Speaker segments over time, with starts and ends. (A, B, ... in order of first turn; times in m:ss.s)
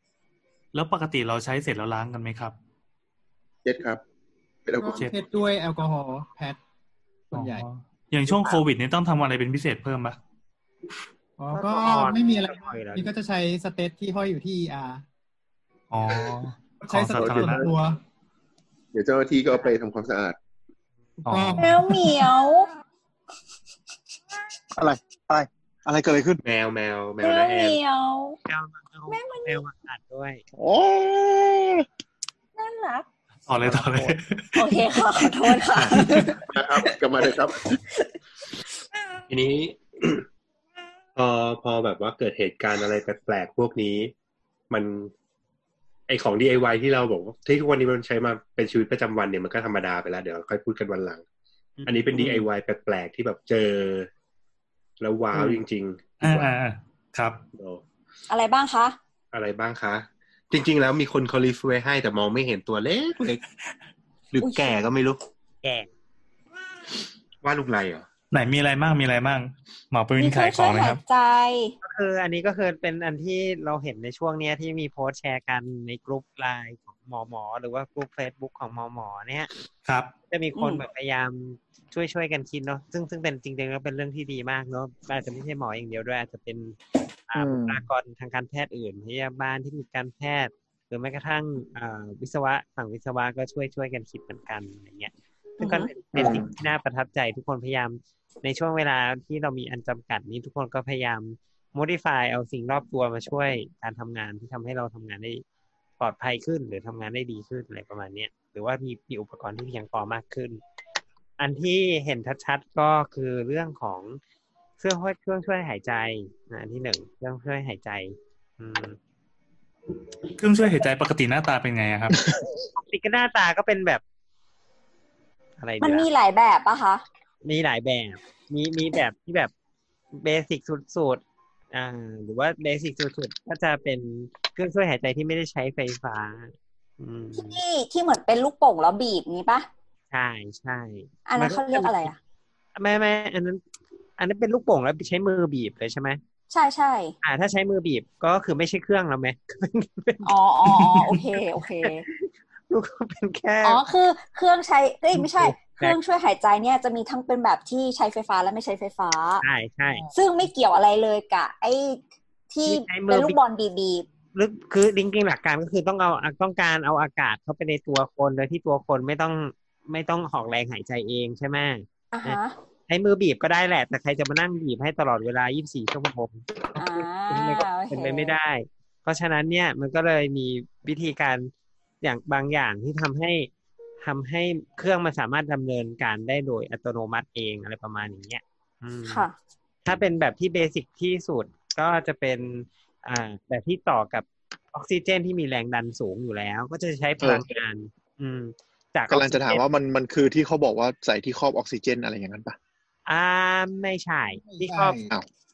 0:00.7-0:02.6 A
0:03.6-0:04.0 B
0:04.6-0:05.1 B
0:04.8-0:06.6 C
0:07.3-0:07.6 C
0:07.3-0:10.2 A
0:08.3-0:08.6 C
0:11.4-0:15.0 C
0:11.5-0:13.1 D
0:15.9-0:17.6 A
0:16.8-0:18.0 C
0:17.1-0:17.7 B
0:18.9-0:20.4 B
0:21.2-0:22.2 C
0:21.3-0:21.8 A
0:21.6-0:22.7 E
0:24.7-0:26.4 F
0:26.4-0:27.8 G
0:27.2-0:28.4 E
0:28.4-0:30.4 D
0:29.1-0:29.6 E
0:30.5-0:31.8 F
0:32.6-0:33.1 E
0:33.5-0:34.6 A
0:33.6-0:34.2 F
0:34.5-0:36.4 E
0:36.5-0:37.8 B
0:39.3-0:40.3 G
0:41.1-0:44.1 G
0:44.7-0:45.1 G
0:46.1-0:51.2 G
0:51.8-0:52.4 D
0:51.8-0:54.1 G
0:55.0-0:56.3 G
0:56.2-0:57.4 A
0:57.5-0:57.8 G
0:58.3-0:59.0 E
0:59.3-1:03.4 G
1:04.3-1:05.2 G
1:04.4-1:04.8 E
1:05.6-1:05.9 D
1:07.4-1:08.1 G
1:08.3-1:11.0 A
1:10.2-1:11.7 E
1:11.8-1:19.5 D
1:19.8-1:20.1 A
1:20.3-1:45.4 D
1:20.5-1:20.8 E
1:27.4-1:27.8 F
1:35.6-1:35.9 E
1:36.1-1:36.5 F
1:46.0-1:50.6 D
1:51.4-1:54.2 D
1:54.8-1:59.0 D
2:00.4-2:02.2 A
2:02.8-2:04.0 D
2:05.6-2:06.1 D
2:05.8-2:07.0 E
2:07.4-2:09.5 D
2:10.1-2:17.6 D
2:17.3-2:19.7 E
2:20.1-2:22.1 D
2:21.3-2:22.2 E
2:22.8-2:23.6 D
2:24.2-2:26.2 D
2:26.5-2:27.2 E
2:27.2-2:30.2 D
2:30.2-2:32.0 E
2:31.8-2:33.9 D
2:33.6-2:39.4 E
2:35.1-2:36.0 D
2:39.4-2:40.0 D
2:40.1-2:44.1 E
2:42.6-2:43.4 D
2:44.3-3:03.5 D
2:52.1-2:52.6 E
2:56.8-2:58.4 E
3:04.0-3:09.2 D
3:09.0-3:09.3 E
3:09.8-3:19.6 D
3:17.2-3:17.5 F
3:19.1-3:22.6 F
3:23.0-3:25.0 D
3:24.4-3:25.1 C